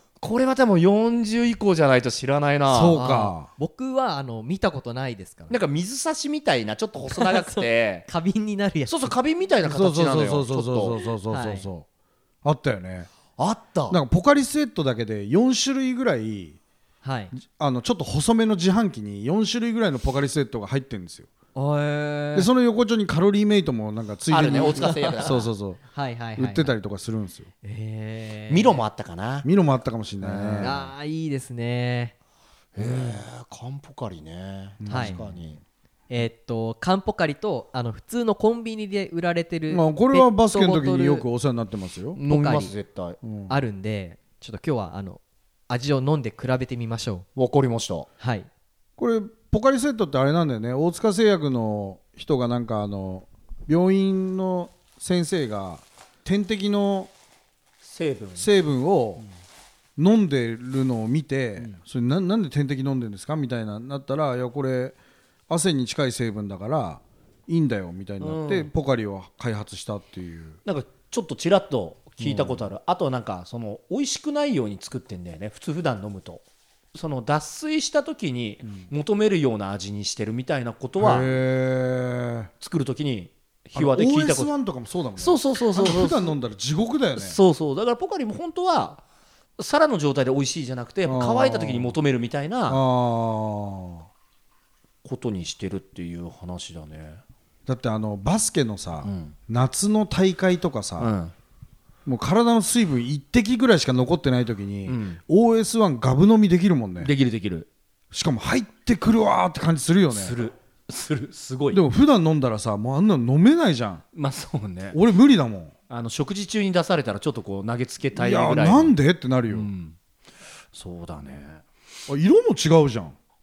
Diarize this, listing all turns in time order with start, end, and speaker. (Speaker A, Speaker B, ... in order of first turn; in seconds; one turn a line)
Speaker A: 0.2-3.0
Speaker B: 2.7-3.5
Speaker C: 2.9-5.6
Speaker A: 5.5-8.1
Speaker C: 7.1-9.1
Speaker A: 8.9-11.0
Speaker B: 9.6-11.8
Speaker C: 11.3-11.7
Speaker B: 12.4-13.1
Speaker A: 13.4-14.0
Speaker B: 13.9-16.6
Speaker C: 17.0-17.3
Speaker B: 17.4-21.3
Speaker C: 21.5-22.5
Speaker B: 22.3-25.8
Speaker A: 24.3-25.5
Speaker C: 24.5-25.3
Speaker C: 25.9-26.7
Speaker B: 26.4-27.5
Speaker C: 27.6-28.8
Speaker A: 28.5-29.5
Speaker B: 29.4-30.8
Speaker A: 30.2-30.9
Speaker C: 30.6-32.1
Speaker A: 32.7-35.6
Speaker B: 32.8-33.1
Speaker B: 34.8-35.4
Speaker C: 34.9-35.2
Speaker C: 36.1-41.2
Speaker B: 39.7-42.2
Speaker A: 42.1-43.2
Speaker C: 42.2-42.7
Speaker B: 43.2-43.6
Speaker C: 43.5-47.2
Speaker A: 47.4-48.1
Speaker C: 48.2-48.5
Speaker B: 49.0-57.1
Speaker A: 57.8-58.5
Speaker B: 58.4-59.2
Speaker B: 60.0-65.0
Speaker B: 65.5-70.6
Speaker A: 68.2-68.7
Speaker A: 70.7-76.4
Speaker B: 72.2-72.7
Speaker A: 76.9-81.4
Speaker B: 81.0-82.5
Speaker A: 82.6-84.5
Speaker B: 83.7-87.4
Speaker A: 85.2-86.3
Speaker A: 87.2-89.0
Speaker A: 89.6-92.8
Speaker B: 91.0-92.0
Speaker B: 92.7-94.0
Speaker A: 95.0-97.2
Speaker B: 97.7-101.1
Speaker A: 99.0-99.3
Speaker A: 101.0-101.3
Speaker B: 102.0-107.1
Speaker A: 104.8-105.2
Speaker A: 107.0-107.7
Speaker B: 108.1-110.4
Speaker A: 110.1-111.8
Speaker B: 111.7-114.0
Speaker A: 114.1-115.0
Speaker B: 114.9-115.7
Speaker A: 115.9-119.0
Speaker B: 118.1-119.7
Speaker A: 119.5-119.9
Speaker A: 120.7-121.6
Speaker B: 122.1-123.2